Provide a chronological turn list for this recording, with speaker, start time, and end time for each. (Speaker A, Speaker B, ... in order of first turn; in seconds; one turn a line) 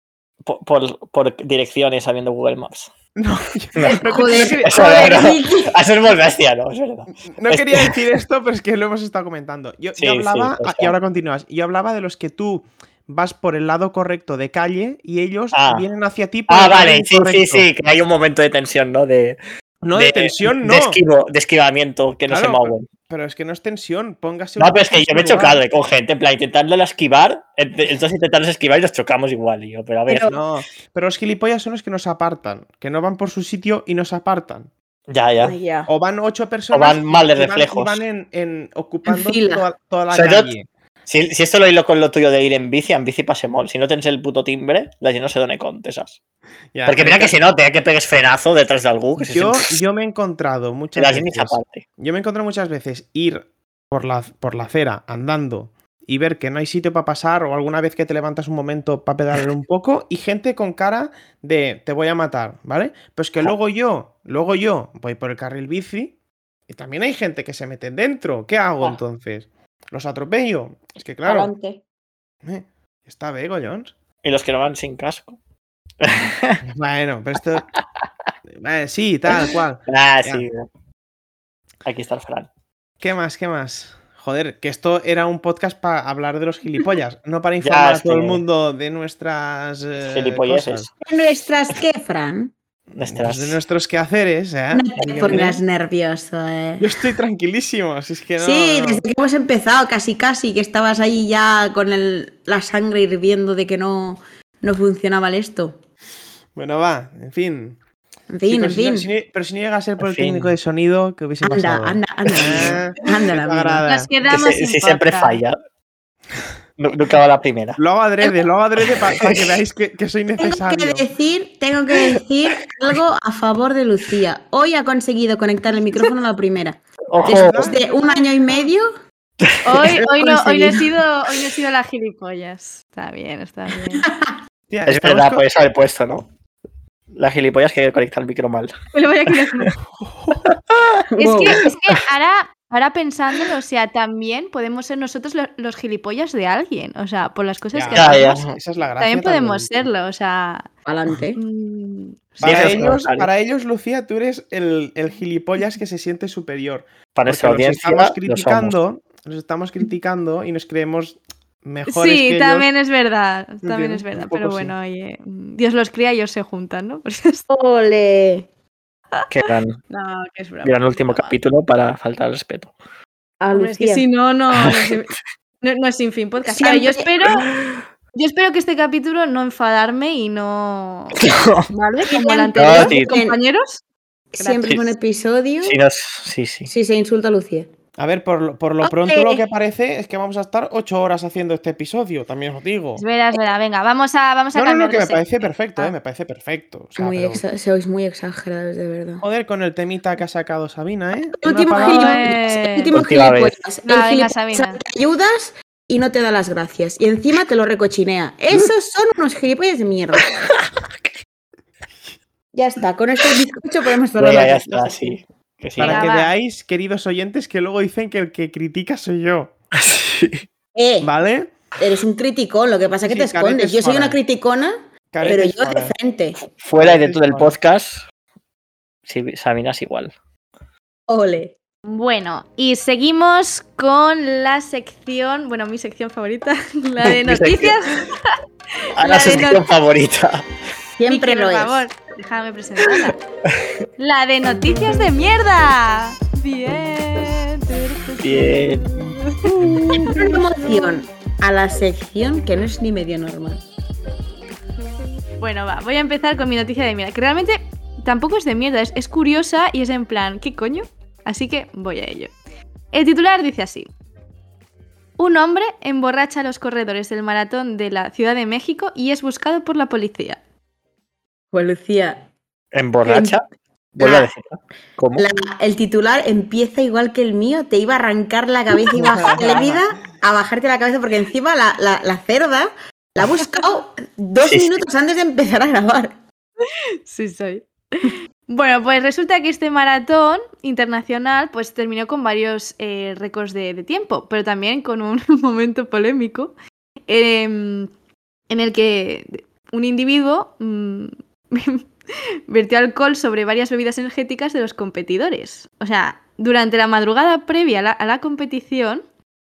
Speaker A: 0.4-2.9
Speaker B: 3.2-5.3
Speaker A: 3.8-8.0
Speaker C: 3.8-5.7
Speaker B: 7.3-17.7
Speaker A: 10.0-10.9
Speaker A: 15.5-15.8
Speaker A: 16.5-19.4
Speaker B: 19.8-21.0
Speaker A: 19.9-22.9
Speaker B: 22.3-25.6
Speaker A: 24.6-30.4
Speaker C: 30.1-30.4
Speaker B: 30.3-34.7
Speaker A: 35.1-35.6
Speaker C: 35.4-35.9
Speaker B: 35.9-40.7
Speaker A: 36.7-38.0
Speaker C: 39.1-39.7
Speaker A: 40.1-40.5
Speaker A: 41.1-46.2
Speaker B: 46.7-47.4
Speaker A: 46.9-49.7
Speaker B: 49.2-66.1
Speaker A: 51.0-51.8
Speaker B: 66.7-71.5
Speaker C: 71.2-71.8
Speaker B: 72.4-73.9
Speaker A: 74.2-75.4
Speaker A: 76.0-76.6
Speaker B: 76.6-77.7
Speaker B: 78.6-80.5
Speaker A: 79.4-80.7
Speaker A: 81.8-82.5
Speaker B: 83.0-90.9
Speaker A: 87.6-88.4
Speaker A: 90.0-90.9
Speaker C: 91.0-92.5
Speaker A: 92.9-93.6
Speaker B: 93.1-95.6
Speaker C: 94.7-96.9
Speaker A: 95.0-95.5
Speaker B: 96.8-99.0
Speaker C: 98.4-105.8
Speaker B: 106.5-107.8
Speaker C: 108.3-109.1
Speaker B: 108.5-114.1
Speaker A: 110.0-110.5
Speaker C: 111.4-113.8
Speaker D: 113.9-115.4
Speaker A: 114.2-115.6
Speaker A: 116.8-117.8
Speaker B: 117.8-121.0
Speaker A: 118.8-119.5
Speaker C: 120.4-128.9
Speaker A: 127.1-127.8
Speaker B: 127.2-127.8
Speaker D: 127.8-128.7
Speaker D: 129.6-134.1
Speaker C: 129.7-130.9
Speaker C: 134.0-134.3
Speaker B: 134.7-135.4
Speaker A: 134.9-136.3
Speaker A: 137.1-138.7
Speaker D: 138.9-139.8
Speaker A: 139.3-139.7
Speaker B: 140.0-140.5
Speaker A: 140.4-140.9
Speaker C: 141.1-141.6
Speaker D: 141.2-148.4
Speaker A: 141.6-142.0
Speaker B: 147.7-149.9
Speaker A: 147.9-148.6
Speaker D: 149.0-150.7
Speaker C: 150.9-151.4
Speaker D: 151.4-152.9
Speaker A: 152.4-153.3
Speaker B: 152.4-162.7
Speaker A: 157.2-158.7
Speaker D: 161.9-167.4
Speaker B: 163.6-164.8
Speaker C: 167.5-168.5
Speaker A: 169.3-169.8
Speaker D: 169.9-171.4
Speaker A: 170.6-172.7
Speaker C: 173.4-174.1
Speaker D: 173.5-177.5
Speaker A: 174.5-175.0
Speaker C: 176.5-177.1
Speaker A: 177.4-177.8
Speaker D: 178.1-183.8
Speaker A: 181.2-181.7
Speaker C: 182.0-183.4
Speaker A: 182.6-183.1
Speaker C: 184.3-185.8
Speaker D: 184.4-184.7
Speaker A: 185.6-186.7
Speaker C: 186.7-187.7
Speaker B: 188.0-193.1
Speaker C: 188.8-189.5
Speaker D: 193.0-195.9
Speaker B: 194.6-197.4
Speaker C: 197.0-199.2
Speaker B: 199.2-202.2
Speaker C: 201.4-210.4
Speaker D: 201.7-202.9
Speaker A: 202.9-203.6
Speaker D: 203.8-204.8
Speaker C: 212.5-215.2
Speaker A: 214.2-216.1
Speaker B: 215.8-219.5
Speaker D: 215.8-216.3
Speaker A: 219.8-220.4
Speaker C: 220.8-221.1
Speaker B: 221.0-221.5
Speaker C: 221.8-226.4
Speaker B: 223.0-224.2
Speaker B: 225.1-225.9
Speaker A: 226.5-228.1
Speaker B: 226.8-227.5
Speaker A: 229.1-230.1
Speaker C: 231.1-231.5
Speaker D: 231.8-239.7
Speaker A: 237.0-237.8
Speaker A: 239.0-240.5
Speaker C: 241.0-241.9
Speaker D: 241.1-243.2
Speaker A: 243.0-243.7
Speaker D: 244.0-249.5
Speaker A: 248.2-248.9
Speaker B: 249.4-250.5
Speaker C: 249.9-253.7
Speaker D: 255.4-262.3
Speaker D: 262.9-263.9
Speaker D: 265.2-270.4
Speaker C: 271.5-272.3
Speaker A: 272.7-273.4
Speaker C: 273.0-273.4
Speaker A: 274.0-275.3
Speaker C: 274.0-274.3
Speaker C: 275.2-286.2
Speaker A: 279.0-279.3
Speaker B: 279.1-279.8
Speaker A: 284.4-284.8
Speaker D: 286.7-296.5
Speaker D: 297.1-297.9
Speaker D: 298.5-301.9
Speaker D: 302.5-309.0